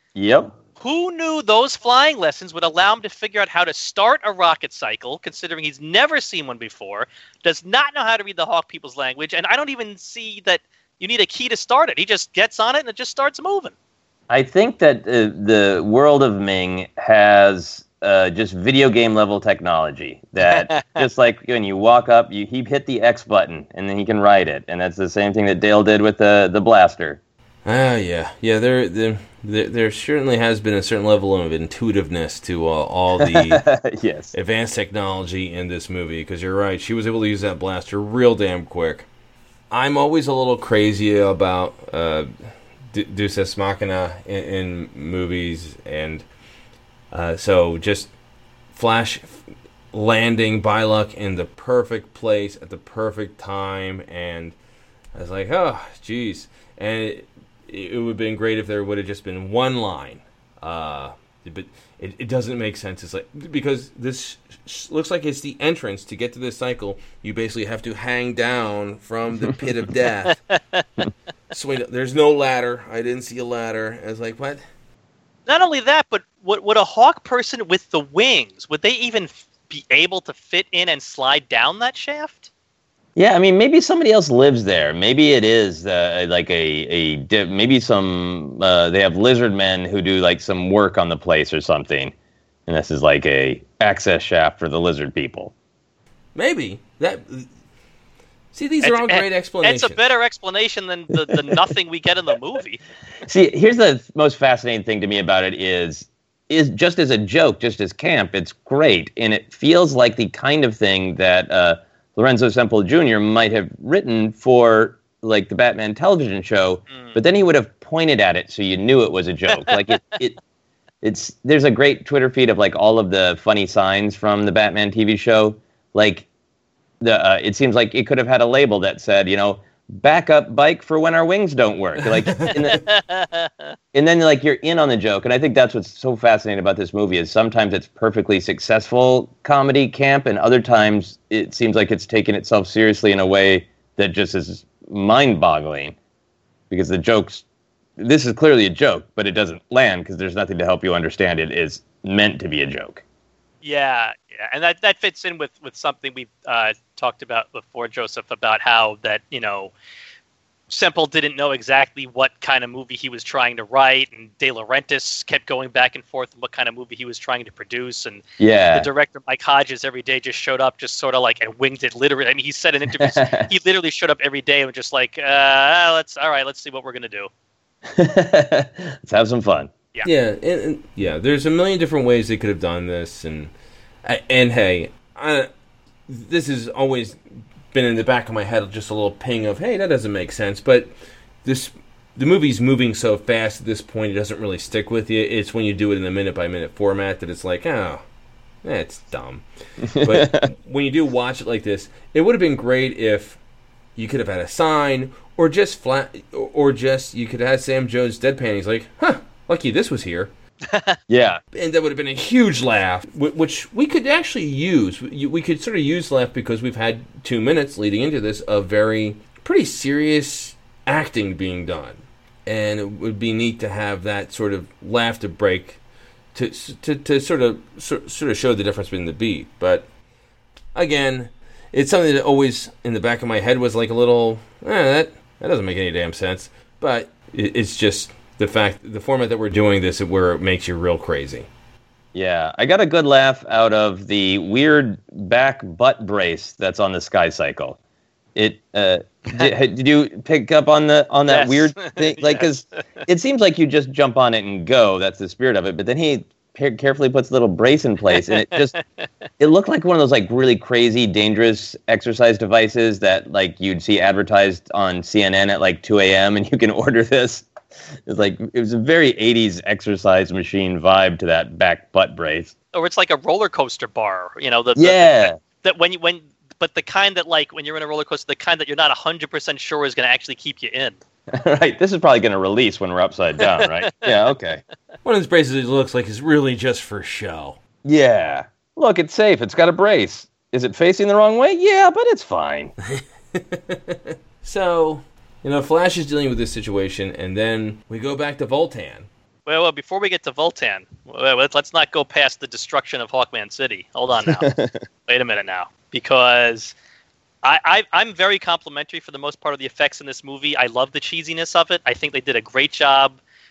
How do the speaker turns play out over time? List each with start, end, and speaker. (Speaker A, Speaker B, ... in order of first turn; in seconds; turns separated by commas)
Speaker A: 0.1-0.6, Speaker B: 0.8-13.8, Speaker A: 14.3-27.2, Speaker B: 20.5-21.1, Speaker C: 27.6-33.7, Speaker A: 33.2-34.3, Speaker C: 34.3-39.1, Speaker C: 39.7-42.3, Speaker C: 42.9-46.2, Speaker C: 47.1-48.1, Speaker C: 48.7-54.6, Speaker C: 55.1-70.4, Speaker B: 70.6-70.8, Speaker C: 71.5-74.6, Speaker B: 75.5-82.5, Speaker A: 83.2-92.1, Speaker A: 92.7-95.5, Speaker C: 96.3-97.5, Speaker C: 98.5-100.0, Speaker B: 98.8-102.8, Speaker A: 103.2-120.4, Speaker B: 116.9-117.2, Speaker B: 119.5-120.0, Speaker A: 121.0-126.3, Speaker A: 127.0-132.8, Speaker B: 132.5-133.7, Speaker A: 133.9-145.9, Speaker A: 146.7-147.4, Speaker A: 148.0-153.0, Speaker B: 153.6-159.7, Speaker B: 160.7-168.2, Speaker A: 168.4-168.9, Speaker B: 168.7-177.3, Speaker A: 173.0-173.5, Speaker A: 177.9-179.7, Speaker C: 180.0-183.5, Speaker C: 184.1-185.5, Speaker C: 186.1-187.2, Speaker C: 187.7-190.9, Speaker C: 191.4-198.0, Speaker C: 198.6-203.4, Speaker A: 199.9-200.5, Speaker C: 204.0-210.3, Speaker B: 210.7-211.0, Speaker A: 211.1-211.4, Speaker C: 211.5-225.8, Speaker C: 226.3-229.9, Speaker C: 230.8-241.5, Speaker A: 242.1-247.8, Speaker A: 248.3-258.7, Speaker B: 251.3-252.6, Speaker B: 258.1-259.1, Speaker A: 259.4-267.5, Speaker A: 268.1-272.5, Speaker B: 272.7-281.0, Speaker A: 274.8-275.4, Speaker A: 281.3-284.6, Speaker B: 283.4-284.1, Speaker C: 285.0-287.6, Speaker A: 287.8-292.7, Speaker C: 292.9-299.1, Speaker B: 299.5-304.5, Speaker A: 304.3-304.7, Speaker B: 305.1-306.8, Speaker B: 307.4-313.2